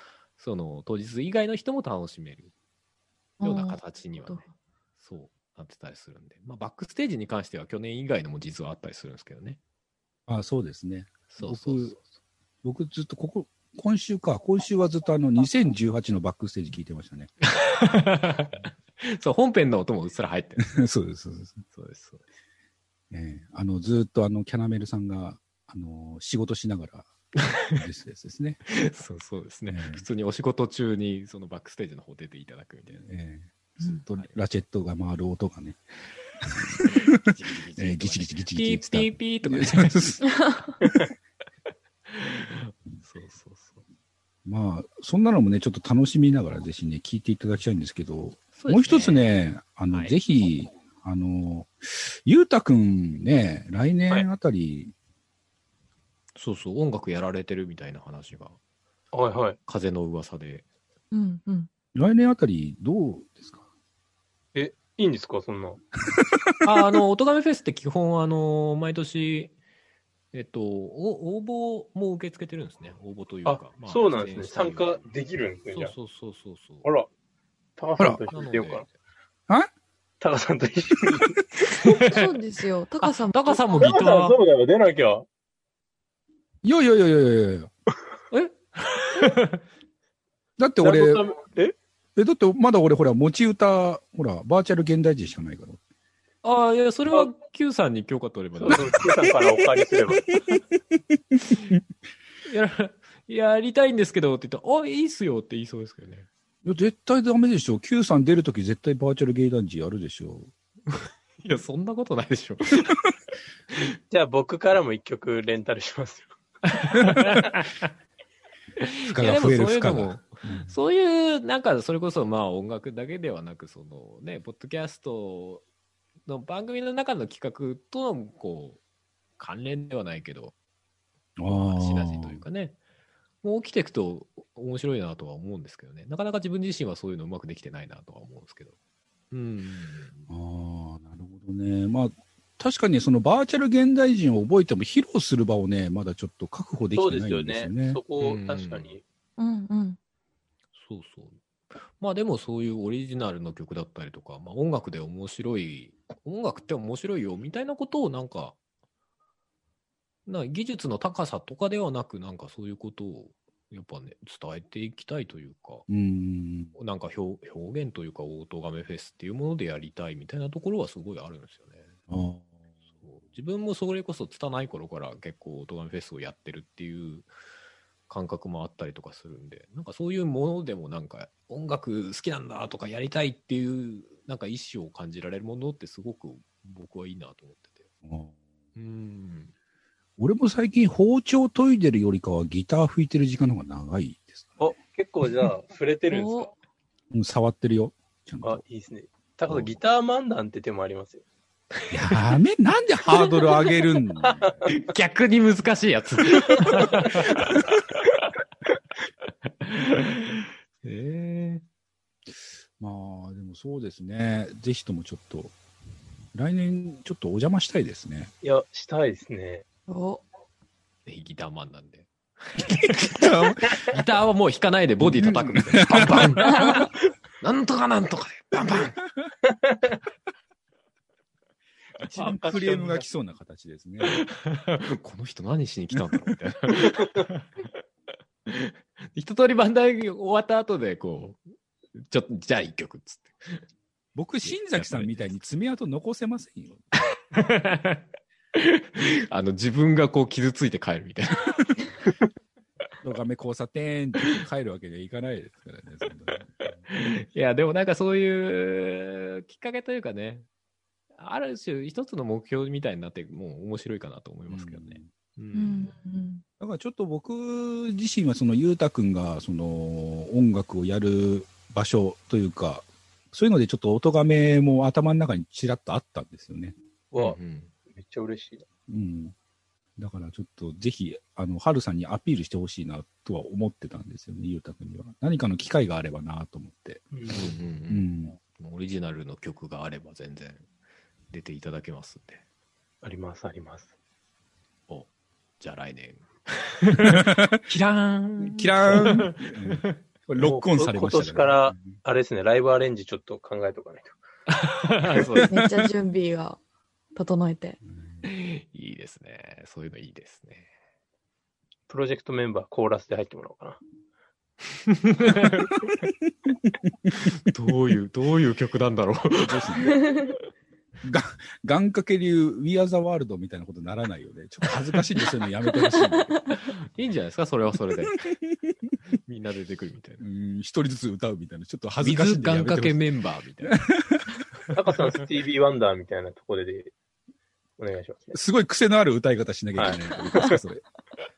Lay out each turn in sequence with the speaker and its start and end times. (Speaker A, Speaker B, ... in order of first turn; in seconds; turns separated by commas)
Speaker A: 0.4-2.5, Speaker B: 3.4-4.5, Speaker A: 3.4-4.4, Speaker A: 5.0-9.6, Speaker C: 10.3-11.9, Speaker A: 11.3-12.0, Speaker C: 12.6-17.3, Speaker A: 17.4-20.7, Speaker C: 20.6-21.6, Speaker A: 21.7-22.2, Speaker C: 23.1-27.1, Speaker C: 27.7-28.6, Speaker A: 28.7-33.1, Speaker C: 29.7-30.1, Speaker C: 33.0-35.8, Speaker C: 36.5-40.3, Speaker A: 36.8-40.3, Speaker A: 42.1-43.8, Speaker C: 44.4-54.9, Speaker A: 48.6-49.3, Speaker A: 56.4-58.6, Speaker D: 59.1-59.6, Speaker A: 59.7-60.6, Speaker B: 61.1-61.7, Speaker C: 61.9-63.6, Speaker D: 64.5-65.8, Speaker C: 66.2-66.4, Speaker A: 66.6-69.5, Speaker A: 70.3-75.0, Speaker D: 73.4-75.9, Speaker A: 75.7-76.9, Speaker D: 77.8-78.9, Speaker A: 78.3-78.9, Speaker D: 80.2-81.9, Speaker B: 81.9-83.6, Speaker A: 82.0-82.3, Speaker A: 83.0-84.4, Speaker D: 83.7-85.3, Speaker C: 86.6-87.7, Speaker A: 88.3-89.6, Speaker C: 90.6-91.2, Speaker D: 90.8-91.8, Speaker C: 92.2-95.8, Speaker A: 96.4-99.0, Speaker D: 98.6-100.3, Speaker C: 101.4-101.8, Speaker A: 102.5-106.3, Speaker C: 106.6-110.5, Speaker A: 110.9-113.0, Speaker D: 114.1-116.3, Speaker A: 116.7-117.9, Speaker A: 118.8-125.6, Speaker C: 119.1-120.7, Speaker A: 126.3-128.8, Speaker A: 129.4-130.5, Speaker C: 131.4-132.4, Speaker A: 131.5-132.8, Speaker A: 133.4-138.7, Speaker A: 139.3-140.3, Speaker C: 140.3-148.0, Speaker D: 146.9-149.0, Speaker A: 148.2-148.9, Speaker B: 149.4-150.0, Speaker A: 150.8-158.6, Speaker A: 160.3-165.9, Speaker C: 165.9-166.7, Speaker A: 166.8-171.9, Speaker C: 172.1-172.5, Speaker A: 173.0-177.3, Speaker A: 178.1-187.8, Speaker C: 188.0-188.3, Speaker A: 188.8-189.5, Speaker C: 190.2-194.7, Speaker D: 194.6-196.5, Speaker B: 196.1-196.5, Speaker C: 197.1-198.6, Speaker D: 198.4-201.2, Speaker C: 201.9-204.6, Speaker A: 204.7-207.6, Speaker A: 209.6-211.6, Speaker C: 212.8-215.5, Speaker C: 216.3-218.3, Speaker D: 218.4-219.6, Speaker B: 219.9-220.2, Speaker A: 221.1-226.8, Speaker C: 222.6-223.6, Speaker C: 225.0-226.8, Speaker B: 226.5-226.8, Speaker A: 227.4-228.9, Speaker D: 232.1-233.1, Speaker C: 232.1-234.2, Speaker A: 234.1-237.7, Speaker A: 238.5-241.4, Speaker A: 242.1-243.6, Speaker C: 244.1-246.8, Speaker A: 244.4-245.4, Speaker A: 247.3-248.1, Speaker A: 248.6-251.6, Speaker C: 253.0-256.8, Speaker A: 256.9-260.4, Speaker A: 261.1-265.9, Speaker C: 264.5-265.1, Speaker B: 265.5-266.4, Speaker C: 266.6-276.8, Speaker D: 277.1-278.6, Speaker A: 277.2-277.7, Speaker C: 278.9-279.3, Speaker C: 280.0-287.0, Speaker D: 287.1-287.6, Speaker A: 287.3-290.6, Speaker C: 287.9-288.4, Speaker A: 291.3-292.4, Speaker D: 293.0-293.9, Speaker A: 295.6-300.0, Speaker C: 297.0-297.6, Speaker C: 298.4-301.9, Speaker D: 300.4-304.1, Speaker A: 304.5-305.6, Speaker B: 305.5-306.6, Speaker B: 307.1-307.8, Speaker A: 308.2-310.7, Speaker D: 311.9-313.8, Speaker A: 314.9-315.8, Speaker A: 317.2-320.2, Speaker C: 319.4-320.0, Speaker C: 321.0-326.5, Speaker A: 326.5-328.3, Speaker A: 329.3-330.2, Speaker C: 330.2-333.0, Speaker A: 332.0-333.8, Speaker C: 333.7-334.2, Speaker D: 334.7-336.9, Speaker D: 337.8-338.4, Speaker C: 338.3-340.8